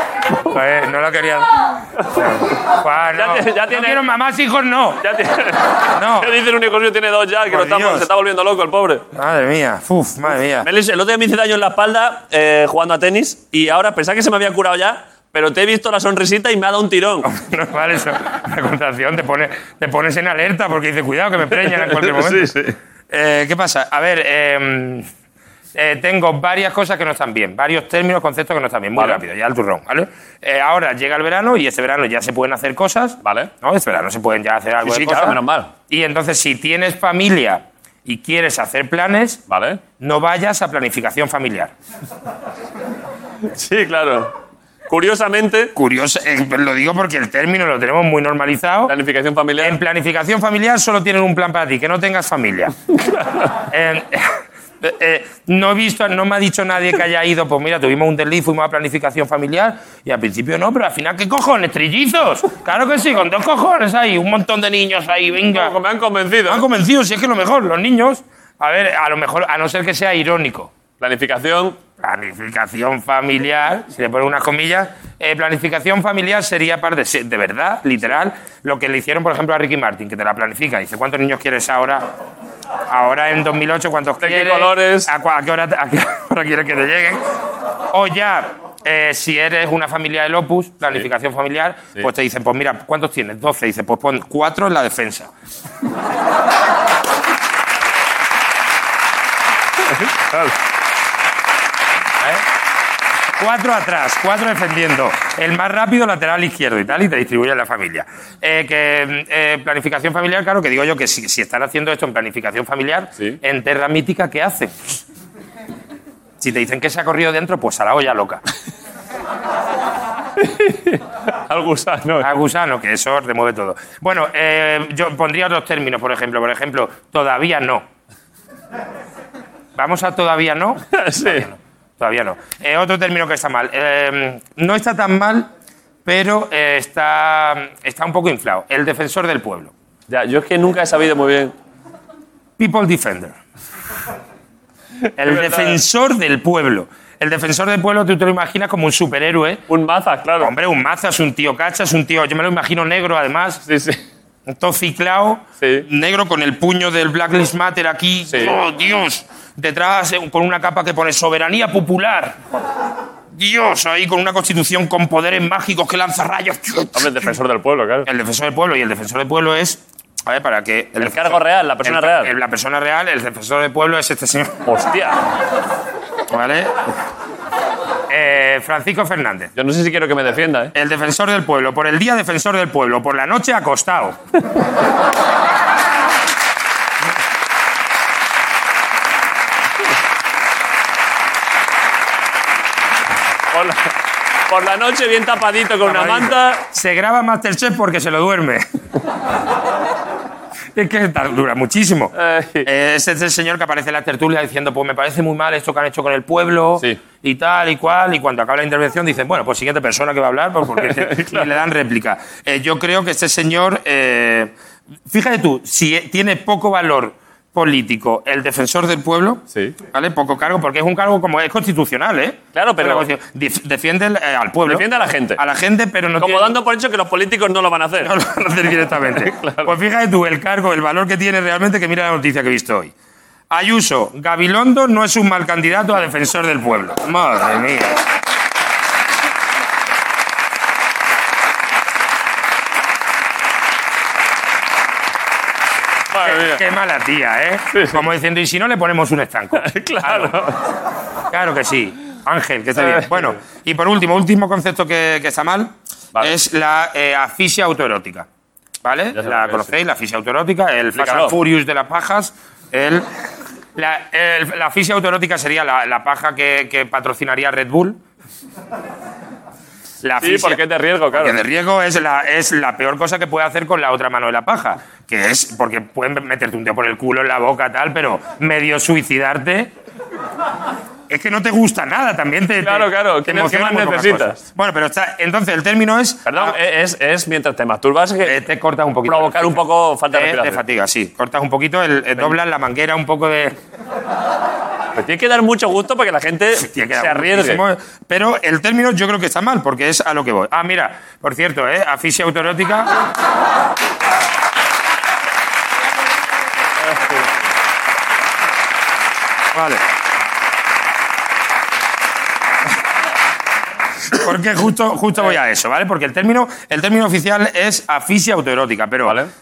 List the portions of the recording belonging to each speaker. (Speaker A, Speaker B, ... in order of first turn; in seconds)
Speaker A: 0.5-5.0, 6.0-6.3, 7.5-8.1, 9.2-10.7, 17.3-22.5, 23.1-25.1, 25.8-39.4, 40.0-41.7, 45.8-48.9, 49.6-52.7, 53.7-65.8, 66.5-70.7, 72.0-82.1, 82.9-87.2, 87.9-95.3, 103.4-114.8, 116.4-118.4, 122.2-127.8, 129.8-135.5, 136.1-139.7, 142.6-143.3, 145.2-149.6, 150.4-153.6, 154.5-162.4, 163.3-167.3, 168.1-174.6, 176.3-176.8, 178.1-179.5, 180.8-184.2, 195.8-198.7, 200.8-202.1, 202.7-214.5, 215.1-224.9, 225.4-226.5, 228.0-232.9, 233.5-238.0, 246.2-250.4, 251.3-258.3, 258.8-263.1, 263.8-268.0, 270.0-279.7, 281.1-286.6, 288.3-289.6, 290.1-293.6, 296.6-302.9, 309.5-309.8, 314.1-319.2
Speaker B: 3.2-4.0, 5.0-9.1, 10.6-17.3, 21.6-22.8, 29.0-29.2, 33.2-33.5, 34.8-35.7, 39.5-39.8, 43.5-44.3, 44.9-45.7, 48.9-49.8, 65.5-66.7, 71.0-71.8, 84.2-85.1, 99.9-100.5, 120.4-122.3, 130.9-131.5, 140.1-141.5, 145.3-145.8, 149.7-150.5, 153.7-154.0, 155.6-155.9, 166.9-168.1, 171.0-172.3, 174.7-175.2, 179.6-180.7, 193.5-193.9, 194.5-196.6, 202.2-202.7, 210.8-211.5, 222.5-223.1, 224.7-225.4, 226.2-228.1, 229.2-229.7, 246.1-246.6, 247.7-248.0, 249.6-250.6, 252.8-253.3, 259.2-259.7, 260.9-261.4, 270.2-271.4, 282.6-284.4, 286.3-288.4, 289.1-290.6, 295.0-297.6